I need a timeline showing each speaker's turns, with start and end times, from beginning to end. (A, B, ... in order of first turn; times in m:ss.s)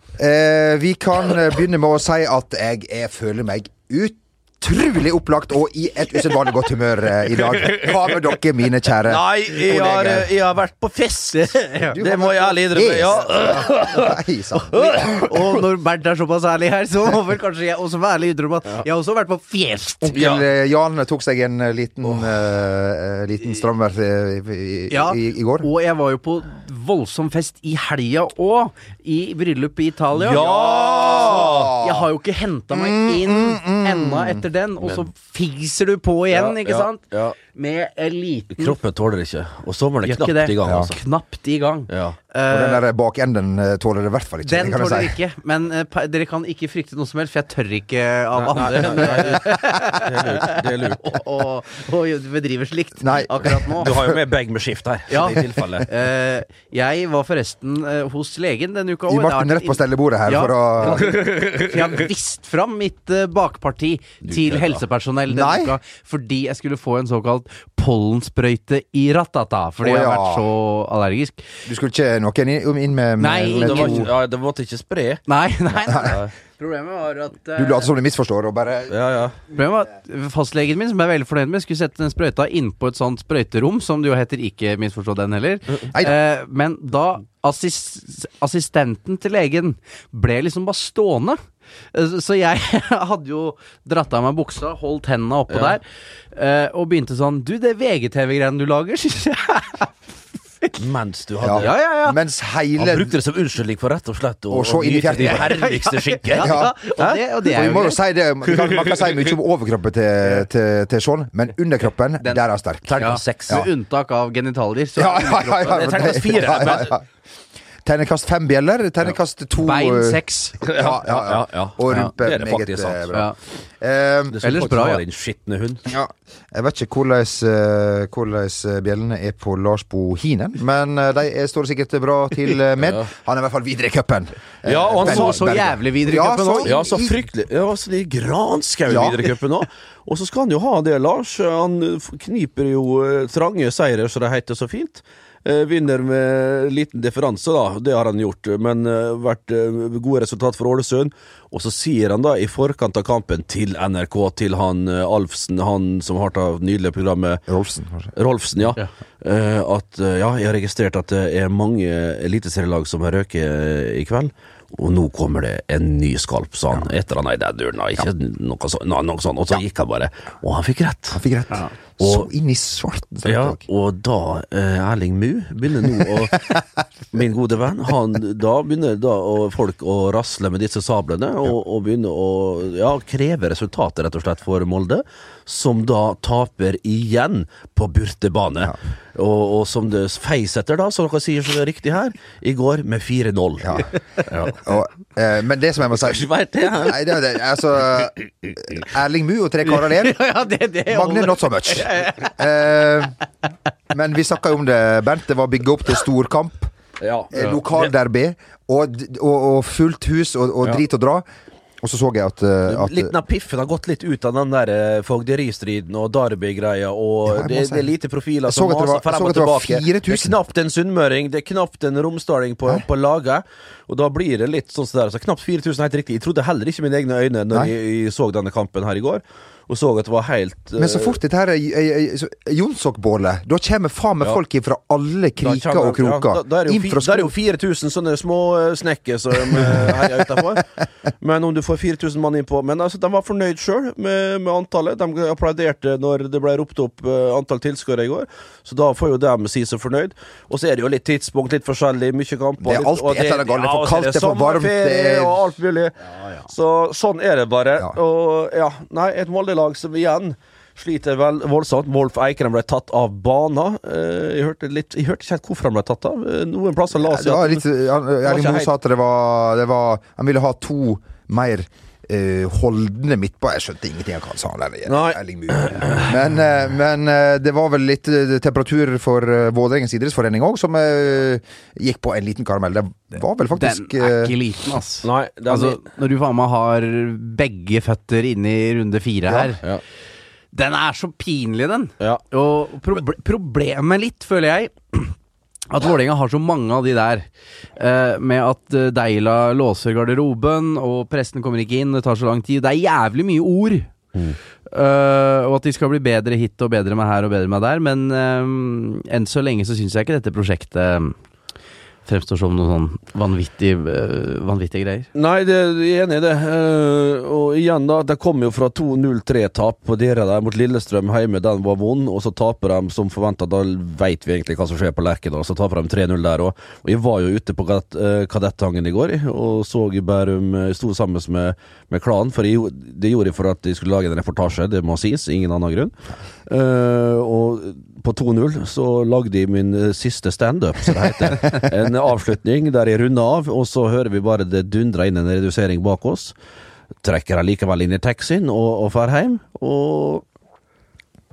0:00.2-0:10.3 A
0:07.4-0:07.9 B
0:09.0-0:14.2 B
0:11.3-0:12.0 C
0:11.9-0:15.2 A
0:14.7-0:15.3 B
0:15.3-0:20.1 C
0:20.0-0:25.7 A
0:20.1-0:20.4 B
0:24.9-0:38.8 C
0:30.1-0:31.8 B
0:31.0-0:32.0 A
0:32.7-0:34.4 A
0:34.8-0:35.1 B
0:36.3-0:37.4 B
0:38.6-0:41.0 B
0:40.0-0:42.8 C
0:40.6-0:40.9 A
0:41.9-0:42.2 B
0:42.5-0:45.1 A
0:44.4-0:50.5 C
0:48.3-0:51.1 B
0:51.0-0:53.9 C
0:53.0-0:54.2 A
0:53.8-0:55.8 B
0:55.1-1:11.4 C
0:59.1-1:01.1 A
1:00.9-1:02.0 B
1:04.2-1:04.8 B
1:05.3-1:05.7 A
1:09.8-1:10.4 A
1:11.6-1:14.1 A
1:13.2-1:14.1 C
1:13.5-1:15.2 B
1:15.3-1:17.9 C
1:15.9-1:16.2 A
1:15.9-1:16.3 B
1:17.5-1:19.0 A
1:18.9-1:19.4 B
1:19.5-1:31.4 C
1:31.9-1:39.9 C
1:35.5-1:35.8 B
1:40.8-1:41.7 B
1:41.4-1:43.2 A
1:41.6-1:42.2 C
1:42.8-1:47.2 B
1:44.5-1:45.7 A
1:45.2-1:48.0 C
1:46.3-1:46.7 A
1:47.4-1:53.7 A
1:48.5-1:49.3 B
1:52.9-1:53.7 B
1:53.0-1:55.7 C
1:55.0-1:57.0 A
1:55.5-1:57.0 B
1:57.8-2:04.4 A
1:59.6-2:00.6 C
2:00.6-2:03.2 B
2:04.3-2:05.8 B
2:04.4-2:05.0 C
2:05.9-2:17.2 A
2:12.8-2:13.1 B
2:14.6-2:15.5 B
2:15.0-2:16.8 C
2:16.6-2:37.4 B
2:18.9-2:19.2 A
2:37.5-2:38.1 A
2:38.2-2:51.2 B
2:51.1-2:53.6 A
2:52.0-2:52.3 B
2:53.2-2:56.4 B
2:57.1-3:14.6 B
3:13.6-3:13.9 A
3:14.5-3:20.2 A
3:15.9-3:17.0 B
3:19.7-3:22.3 C
3:20.8-3:23.1 A
3:23.9-3:26.7 A
3:27.0-3:27.9 B
3:27.3-3:31.2 A
3:31.8-3:33.1 A
3:32.7-3:51.2 B
3:37.2-3:37.9 A
3:38.5-3:40.4 A
3:50.8-3:57.3 A
3:55.4-4:00.7 B
3:59.4-4:00.6 A
4:01.2-4:15.9 B
4:12.6-4:15.5 A
4:16.4-4:27.6 B
4:27.0-4:44.3 A
4:28.2-4:28.7 B
4:34.9-4:36.1 B
4:43.5-4:49.6 C
4:45.0-4:45.8 B
4:49.3-4:49.5 A
4:50.5-4:55.1 C
4:55.7-5:03.9 C
5:04.7-5:11.2 C
5:12.0-5:15.1 C
5:15.1-5:35.9 B
5:36.5-5:46.3 B
5:47.0-5:50.2 B